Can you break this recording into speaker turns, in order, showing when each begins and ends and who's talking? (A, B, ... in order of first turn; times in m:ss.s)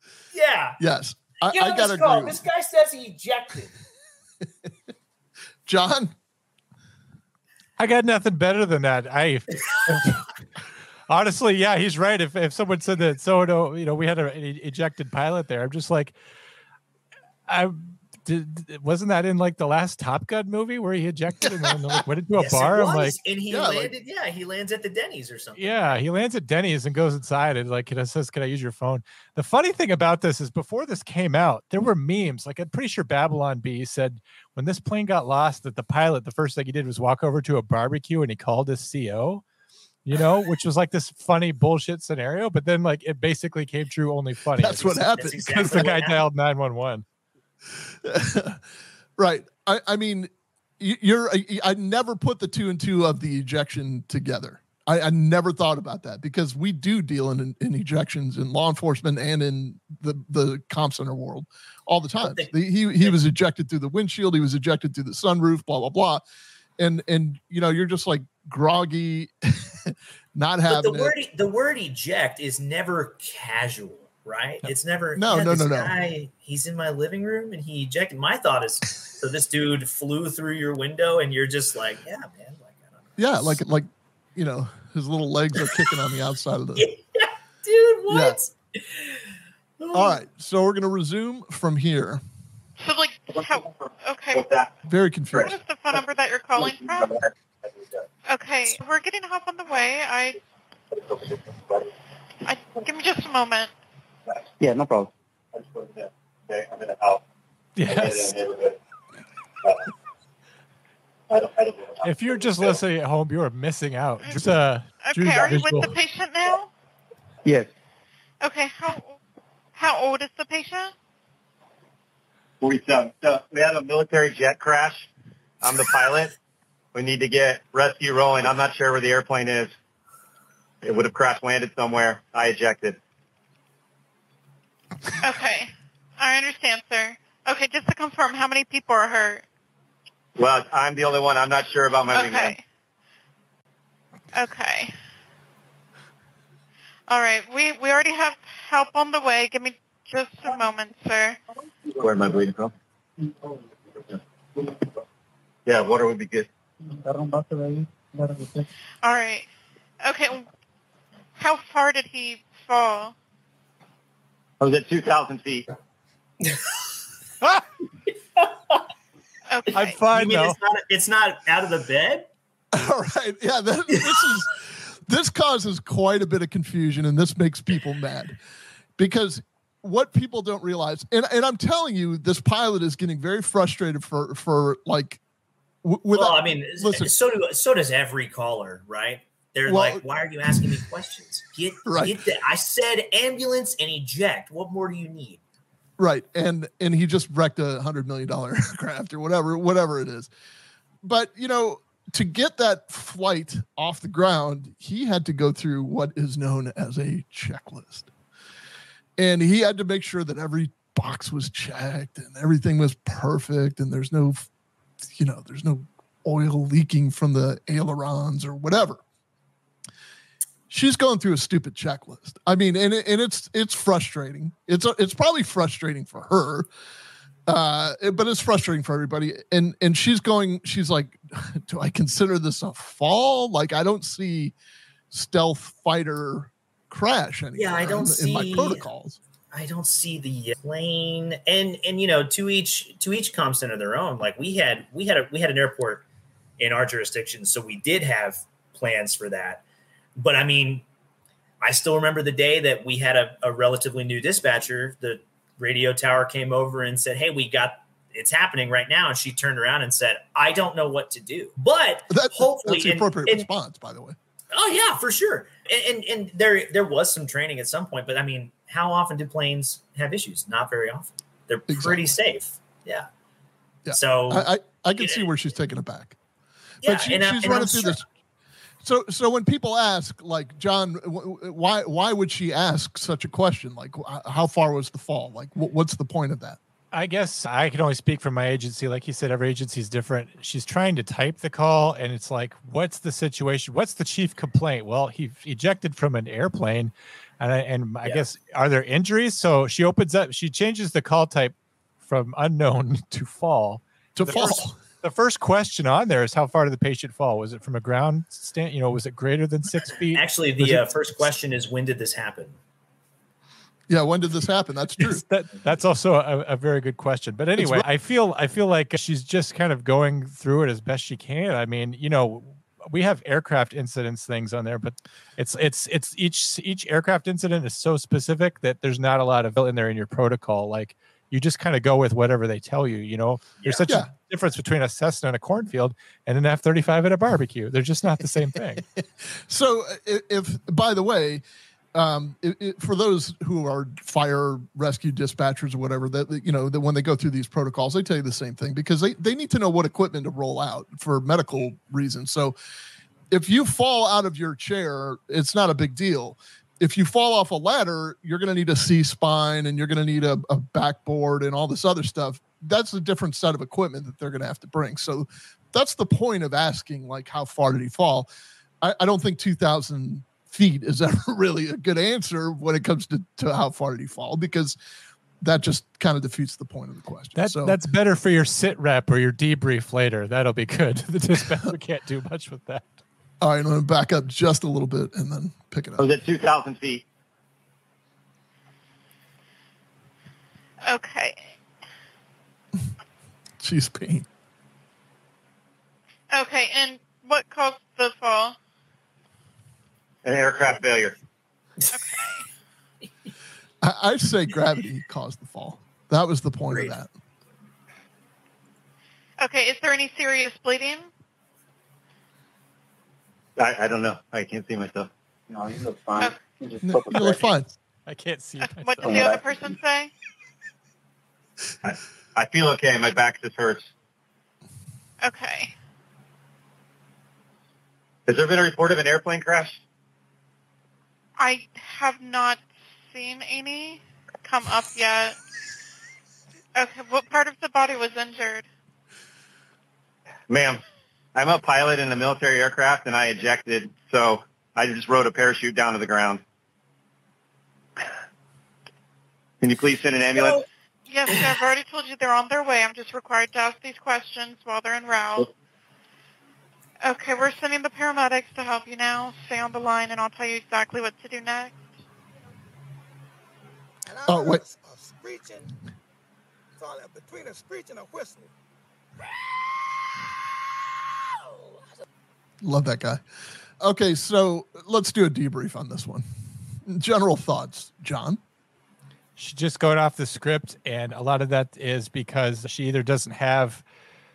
0:00.3-0:00.8 A
0:00.8-0:02.4 B
0:01.4-0:03.7 A
0:05.6-0:06.1 B
0:07.8-0:10.3 C
0:11.1-0:16.1 C
0:17.5-0:23.2 C
0:22.3-0:26.0 A
0:23.5-0:23.9 B
0:25.6-0:39.4 C
0:40.0-0:47.0 C
0:44.6-0:45.9 B
0:45.0-0:46.2 A
0:47.8-0:48.6 B
0:49.2-1:06.2 B
1:02.2-1:02.5 A
1:06.8-1:11.1 B
1:10.7-1:23.6 A
1:15.2-1:15.9 B
1:23.2-1:26.9 B
1:26.8-1:30.2 A
1:28.1-1:28.4 B
1:29.9-1:32.2 B
1:32.8-1:34.5 D
1:33.4-1:33.6 E
1:34.3-1:34.7 E
1:34.8-1:35.5 B
1:35.4-1:37.2 D
1:36.6-1:37.3 E
1:38.3-1:40.4 D
1:40.9-1:41.9 E
1:42.4-1:43.7 D
1:44.6-1:45.1 F
1:45.6-1:47.2 E
1:47.8-1:48.4 C
1:47.8-1:48.7 E
1:49.6-1:49.9 E
1:51.3-1:52.8 E
1:52.0-1:55.9 C
1:55.0-1:56.7 D
1:58.4-1:59.2 D
1:59.7-2:00.9 D
2:02.6-2:05.1 E
2:05.6-2:06.3 E
2:06.9-2:09.7 E
2:10.8-2:13.0 E
2:15.2-2:19.4 D
2:20.4-2:22.6 E
2:22.1-2:22.6 D
2:24.3-2:25.0 D
2:27.1-2:31.4 D
2:31.9-2:32.7 E
2:34.1-2:34.7 E
2:35.6-2:36.5 E
2:37.1-2:38.6 F
2:39.0-2:39.5 D
2:40.0-2:40.5 D
2:41.4-2:43.1 D
2:44.6-2:45.7 E
2:49.5-2:49.9 D
2:49.7-2:50.6 C
2:50.1-2:52.3 A
2:52.7-2:58.4 B
2:53.9-2:54.2 A
2:59.0-3:05.2 B
3:05.8-3:07.1 B
3:06.1-3:15.4 A
3:09.6-3:10.7 B
3:11.8-3:12.1 B
3:16.0-3:20.3 B
3:21.0-3:28.1 B
3:29.2-3:34.5 B
3:35.1-3:39.0 B
3:40.7-3:46.7 B
3:47.5-3:54.5 B
3:55.1-3:59.2 B
3:57.5-3:58.9 A
3:59.5-4:06.0 A
4:06.6-4:09.6 A
4:10.2-4:10.8 A
4:11.6-4:23.5 A
4:22.1-4:24.2 B
4:24.5-4:33.1 A
4:31.7-4:32.1 B
4:33.8-4:36.2 B
4:33.9-4:35.3 A
4:36.8-4:38.0 A
4:36.8-4:38.1 B
4:38.8-4:46.6 B
4:46.9-5:10.9 C
5:04.2-5:04.8 B
5:04.3-5:04.6 A
5:10.1-5:12.6 A
5:13.9-5:15.2 B
5:15.0-5:38.8 C
5:17.6-5:17.8 B
5:39.5-5:41.4 B
5:41.9-5:52.6 B
5:53.3-6:08.3 B
6:08.8-6:14.8 B
6:15.4-6:17.7 B
6:17.4-6:23.0 C
6:23.4-6:26.1 B
6:26.0-6:27.0 E
6:30.8-6:31.5 D
6:33.6-6:34.2 B
6:36.3-6:38.6 D
6:40.2-6:41.1 E
6:41.9-6:42.4 D
6:43.8-6:47.1 B
6:46.7-6:46.9 A
6:49.4-6:51.1 D
6:53.6-6:55.1 E
6:56.8-6:57.7 B
6:58.1-6:59.3 C
6:58.6-7:00.1 D
7:01.8-7:03.9 E
7:05.2-7:05.7 D
7:08.3-7:09.8 E
7:11.4-7:15.4 D
7:16.7-7:18.6 D
7:20.5-7:20.8 E
7:21.3-7:26.4 E
7:29.6-7:30.6 E
7:30.3-7:30.6 A
7:31.1-7:35.5 D
7:37.0-7:41.8 D
7:44.1-7:45.7 G
7:44.2-7:44.6 B
7:46.8-7:48.5 G
7:49.2-7:50.1 G
7:51.1-7:52.0 G
7:52.6-7:53.2 B
7:53.8-7:56.2 B
7:56.8-7:58.4 B
7:59.4-8:03.8 C